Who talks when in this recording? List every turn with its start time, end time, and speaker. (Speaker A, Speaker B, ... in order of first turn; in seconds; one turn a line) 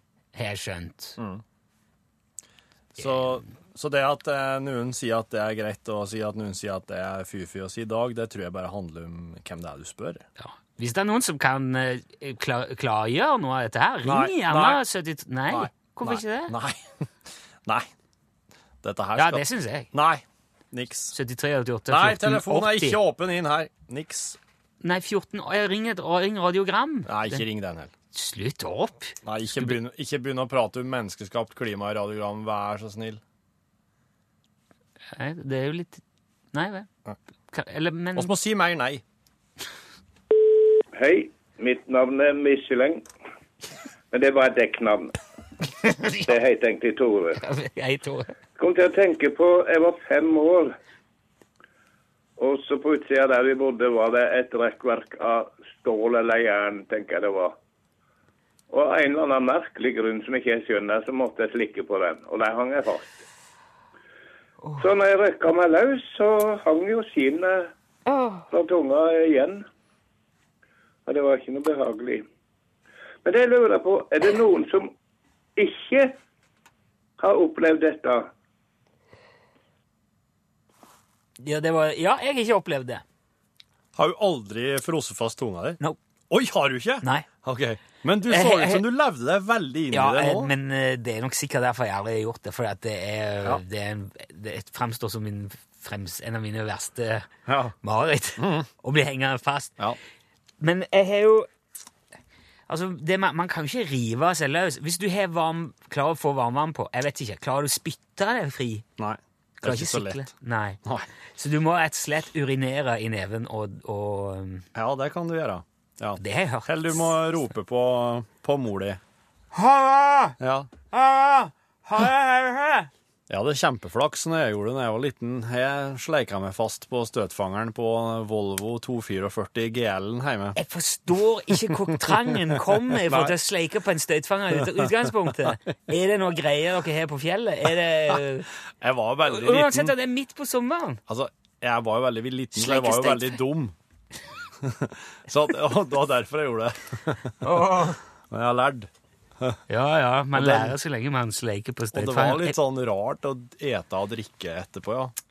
Speaker A: 0.3-1.2
Speaker B: 1.2-1.4
Speaker B: 3.0-10.2
Speaker A: 3.0-3.4
Speaker A: 10.4-16.5
Speaker B: 14.0-14.8
Speaker B: 15.5-17.0
Speaker B: 18.8-21.2
Speaker A: 19.2-19.9
Speaker A: 21.1-23.0
Speaker B: 21.9-24.4
Speaker A: 24.8-27.4
Speaker B: 27.1-27.9
Speaker A: 28.1-29.8
Speaker B: 29.2-33.2
Speaker A: 35.1-36.0
Speaker A: 36.5-36.9
Speaker A: 37.5-38.3
Speaker B: 38.1-39.0
Speaker C: 40.9-43.1
Speaker C: 44.1-45.2
Speaker A: 45.8-46.3
Speaker C: 46.2-47.4
Speaker A: 47.4-48.3
Speaker C: 48.6-50.7
Speaker C: 52.4-57.5
Speaker C: 58.7-63.2
Speaker A: 64.6-64.9
Speaker C: 64.8-67.7
Speaker A: 68.1-68.4
Speaker C: 68.5-69.7
Speaker C: 71.1-72.2
Speaker C: 73.2-74.9
Speaker C: 75.6-76.2
Speaker C: 77.2-78.3
Speaker A: 81.4-83.0
Speaker B: 84.0-90.5
Speaker A: 88.3-88.8
Speaker A: 89.9-97.3
Speaker B: 97.5-97.8
Speaker A: 97.8-99.8
Speaker B: 98.4-98.7
Speaker A: 100.6-101.5
Speaker A: 102.7-108.8
Speaker B: 109.0-110.3
Speaker A: 109.6-110.8
Speaker A: 111.4-114.7
Speaker B: 114.8-119.0
Speaker A: 116.2-117.2
Speaker A: 119.5-120.4
Speaker B: 120.4-120.7
Speaker A: 120.9-122.9
Speaker B: 123.3-130.6
Speaker A: 130.6-138.5
Speaker B: 131.7-133.3
Speaker B: 134.6-134.9
Speaker B: 138.8-139.9
Speaker A: 139.3-141.0
Speaker B: 141.1-143.8
Speaker A: 142.6-143.4
Speaker B: 144.6-148.9
Speaker A: 147.4-148.0
Speaker A: 149.7-152.6
Speaker B: 150.3-150.8
Speaker B: 151.9-155.1